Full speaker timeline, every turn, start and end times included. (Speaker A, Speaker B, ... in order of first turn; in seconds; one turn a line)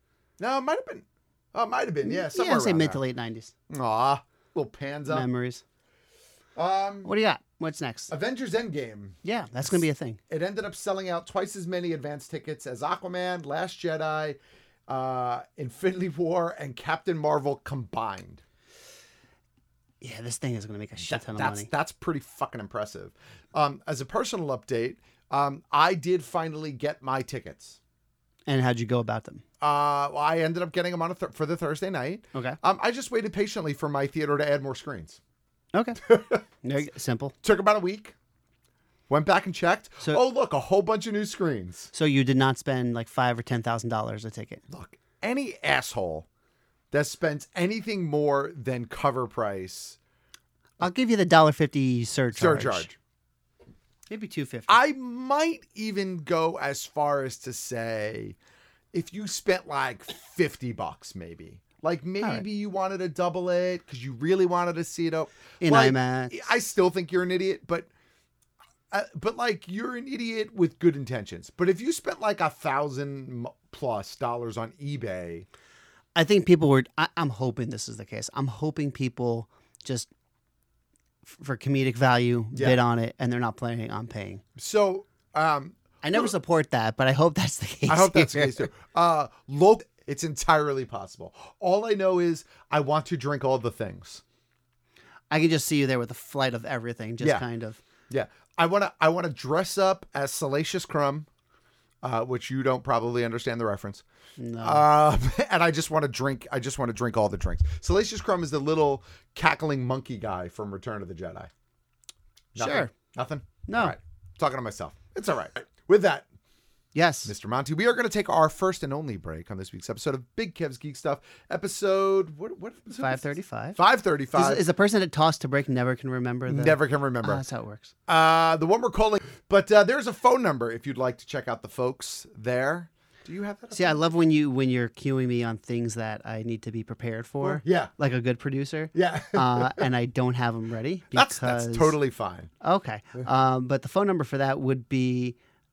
Speaker A: 0.4-3.0
Speaker B: 2.0-3.5
Speaker A: 3.7-5.3
Speaker B: 5.1-5.6
Speaker A: 6.6-7.1
Speaker B: 7.0-8.1
Speaker A: 8.1-18.4
Speaker B: 9.2-10.2
Speaker B: 20.0-21.7
Speaker A: 21.0-27.8
Speaker B: 28.5-29.4
Speaker A: 29.6-35.2
Speaker B: 35.7-36.0
Speaker A: 36.0-36.4
Speaker B: 36.6-37.4
Speaker A: 37.4-38.1
Speaker A: 39.1-41.9
Speaker B: 41.9-44.6
Speaker A: 44.7-46.3
Speaker A: 46.9-50.0
Speaker B: 50.8-52.9
Speaker A: 52.3-53.0
Speaker B: 54.1-54.8
Speaker A: 54.7-58.4
Speaker A: 58.9-67.9
Speaker B: 65.6-66.5
Speaker A: 68.9-75.5
Speaker B: 76.2-80.1
Speaker B: 81.3-84.4
Speaker A: 82.5-82.8
Speaker A: 84.6-86.3
Speaker B: 86.0-88.7
Speaker A: 87.9-94.2
Speaker B: 95.3-97.8
Speaker A: 98.1-101.3
Speaker A: 102.0-104.0
Speaker B: 104.4-104.9
Speaker A: 104.6-111.5
Speaker A: 112.5-116.3
Speaker B: 112.6-112.9
Speaker B: 113.7-114.0
Speaker B: 117.0-117.3
Speaker A: 117.2-124.6
Speaker B: 123.0-123.8
Speaker B: 124.3-127.9
Speaker A: 126.5-127.4
Speaker A: 128.1-134.0
Speaker B: 133.7-142.0
Speaker A: 137.4-137.9
Speaker A: 138.9-139.9
Speaker A: 141.1-142.5
Speaker B: 142.6-145.4